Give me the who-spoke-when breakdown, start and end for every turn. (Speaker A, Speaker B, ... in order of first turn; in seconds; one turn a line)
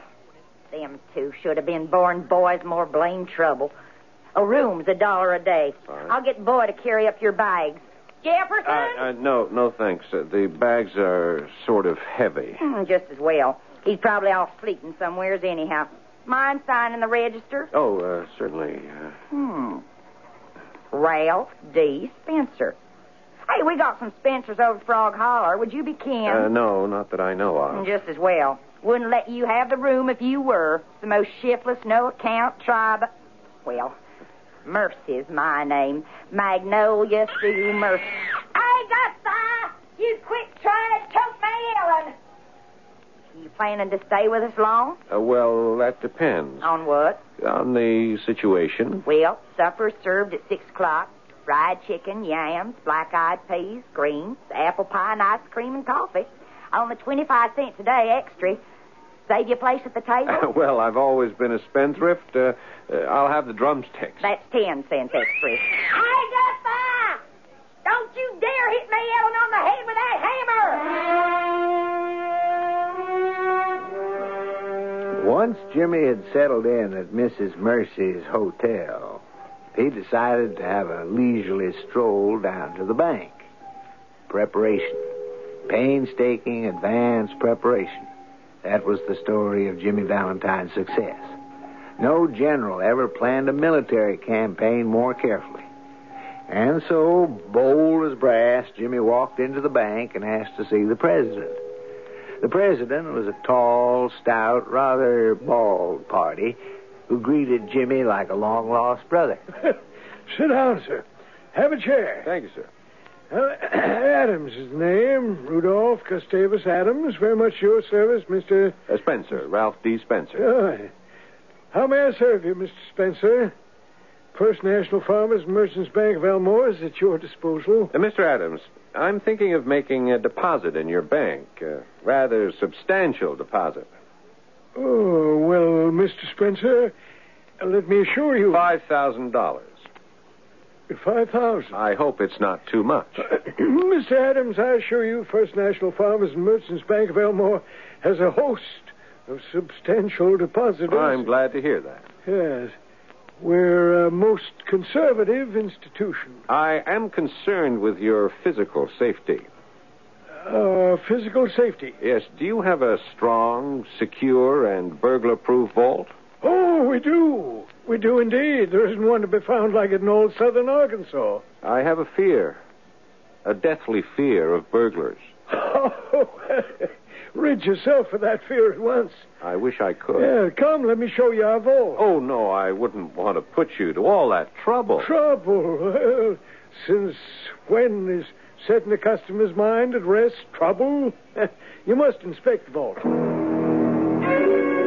Speaker A: 0.7-3.7
Speaker A: 4.3-9.0
Speaker B: 8.6-12.6
Speaker A: 12.6-17.7
Speaker B: 17.7-19.1
Speaker A: 19.3-19.8
Speaker A: 20.9-22.8
Speaker A: 23.5-26.5
Speaker B: 26.2-27.9
Speaker A: 27.7-33.1
Speaker A: 33.6-34.0
Speaker A: 34.6-42.1
Speaker A: 43.3-45.0
Speaker B: 45.1-46.7
Speaker A: 46.6-47.2
Speaker B: 47.4-49.0
Speaker A: 49.0-58.6
Speaker A: 59.3-60.5
Speaker B: 60.3-64.2
Speaker A: 64.2-67.2
Speaker A: 67.8-70.9
Speaker C: 75.2-79.2
Speaker C: 79.7-83.5
Speaker C: 84.3-85.0
Speaker C: 85.7-88.1
Speaker C: 88.6-91.3
Speaker C: 92.0-95.7
Speaker C: 96.5-101.6
Speaker C: 102.4-109.4
Speaker D: 110.3-112.3
Speaker B: 112.2-112.7
Speaker D: 113.3-118.8
Speaker B: 118.9-120.5
Speaker D: 120.4-120.9
Speaker D: 121.7-123.5
Speaker D: 124.3-127.9
Speaker B: 127.9-133.9
Speaker D: 134.7-136.9
Speaker D: 137.6-138.7
Speaker B: 138.5-139.8
Speaker D: 140.9-141.8
Speaker B: 141.7-143.2
Speaker D: 143.2-151.3
Speaker B: 150.9-152.1
Speaker D: 152.2-152.7
Speaker D: 153.4-156.4
Speaker B: 156.5-159.5
Speaker D: 160.4-161.9
Speaker B: 162.0-166.1
Speaker D: 166.4-171.4
Speaker B: 171.6-172.6
Speaker B: 173.4-175.2
Speaker D: 175.5-179.3
Speaker B: 179.4-180.3
Speaker D: 180.2-182.0
Speaker B: 181.9-185.1
Speaker D: 185.0-193.1